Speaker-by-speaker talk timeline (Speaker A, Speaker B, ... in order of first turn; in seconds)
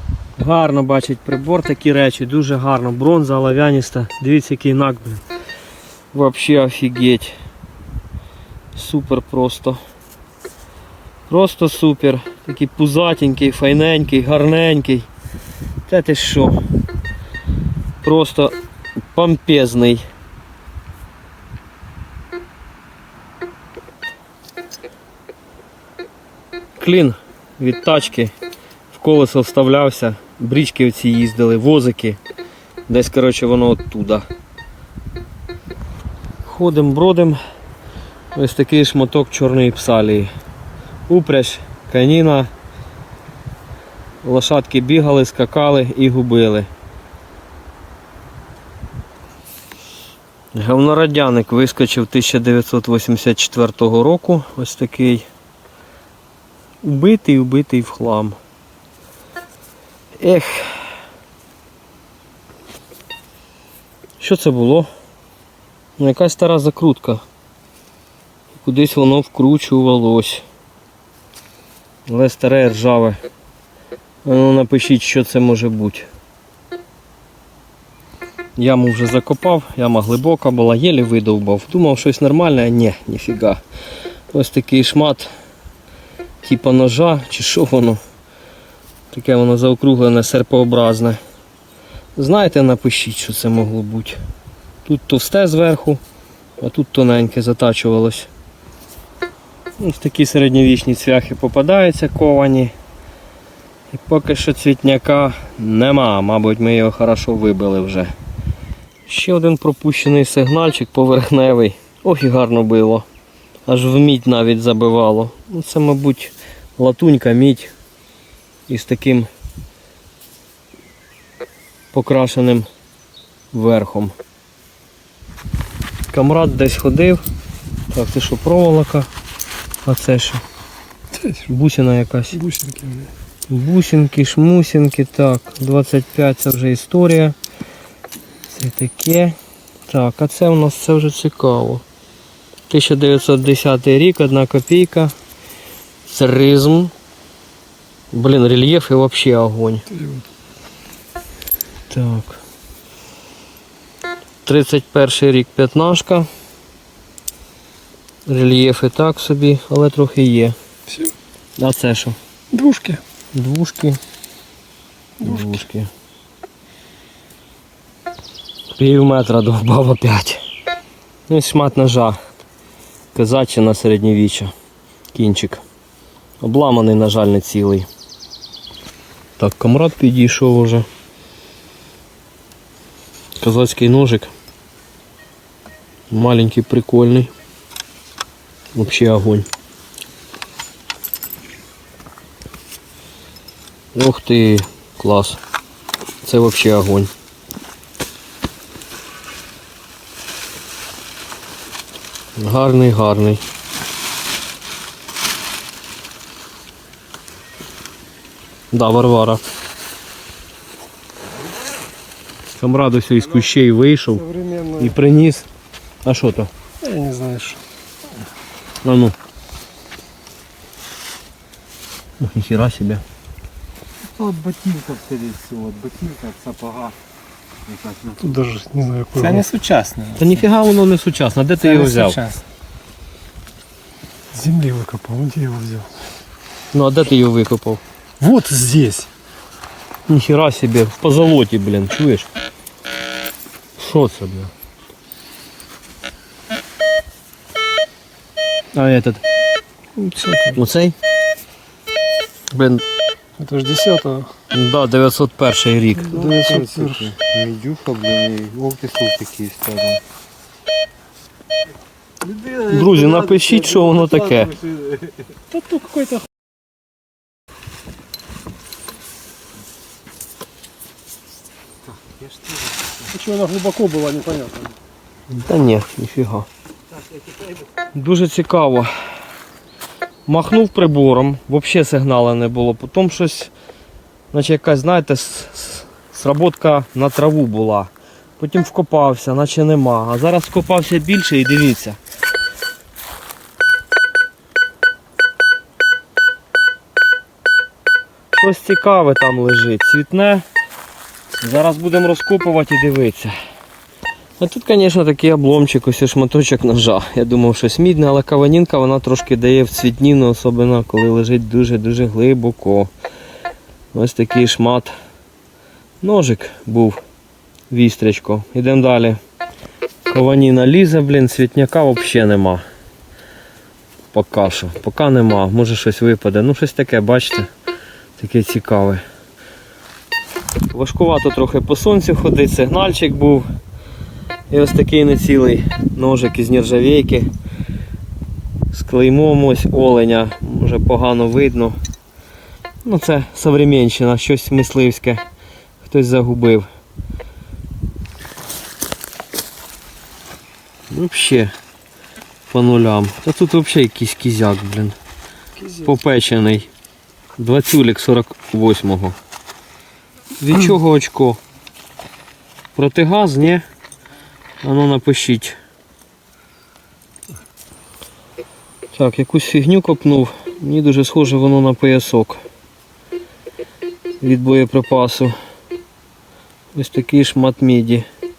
Speaker A: 0.4-5.2, 6.1-7.3, 8.7-9.8, 11.3-15.1, 15.9-16.6, 18.0-18.5, 19.1-20.0, 26.8-28.3, 28.9-32.2, 32.9-34.2, 36.4-37.4, 38.3-40.3, 41.1-42.5, 44.2-46.7, 50.5-55.2, 56.8-58.4, 60.2-60.8, 64.2-64.9, 66.0-67.2, 68.5-70.4, 72.1-73.2, 74.2-76.1, 78.6-83.6, 84.3-85.3, 86.4-88.0, 89.1-91.2, 92.2-94.2, 94.8-96.0, 96.6-98.3, 99.8-102.7, 103.9-108.1, 109.1-113.0, 113.7-117.7, 118.7-119.3, 121.9-122.7, 123.5-124.1, 126.1-127.2, 127.9-129.1, 129.8-130.4, 131.4-132.4, 133.5-137.3, 138.5-139.3, 139.9-141.8, 142.7-145.1, 146.0-146.9, 148.1-149.9, 151.9-152.4, 154.4-156.3, 158.2-160.6, 161.6-162.2, 163.3-164.0, 165.2-165.9, 168.7-170.4, 171.3-172.2, 173.1-174.5, 175.1-175.6, 176.4-177.9, 179.4-180.8, 183.4-184.3, 186.1-187.3, 188.7-189.5, 193.9-195.4, 196.2-197.1, 202.4-203.4, 208.7-209.4, 212.6-215.5, 216.0-216.5, 218.8-219.1, 222.2-223.0, 230.2-232.2, 236.7-237.8, 240.1-242.3, 243.8-244.5, 248.7-249.2, 250.5-250.9, 252.5-252.8, 254.5-256.4, 262.7-264.5, 275.3-276.5, 277.9-278.9, 280.3-283.5, 284.3-292.0, 298.3-300.4, 301.4-303.3, 304.4-312.9, 313.9-314.9, 316.0-317.0, 317.7-319.2, 320.1-322.6, 324.1-327.5, 328.2-329.0, 330.7-333.4, 334.5-337.3, 338.7-341.8, 342.8-345.2, 345.8-346.7, 350.9-351.5, 352.5-354.9, 355.7-356.7, 357.4-359.1, 360.4-361.4, 362.7-363.6, 364.6-365.6, 368.9-372.4, 374.2-375.3, 376.7-378.1
Speaker B: 132.3-133.1, 149.9-150.2, 162.5-163.0, 165.2-165.6, 214.2-214.9, 216.8-217.6, 228.2-229.4, 231.7-232.3, 234.3-235.9, 238.2-239.1, 250.0-250.6, 253.4-254.3, 256.1-257.1, 265.5-266.3, 273.1-274.7
Speaker C: 224.0-226.9, 227.7-228.4, 229.1-230.4, 231.6-232.4, 256.3-260.0, 262.2-265.1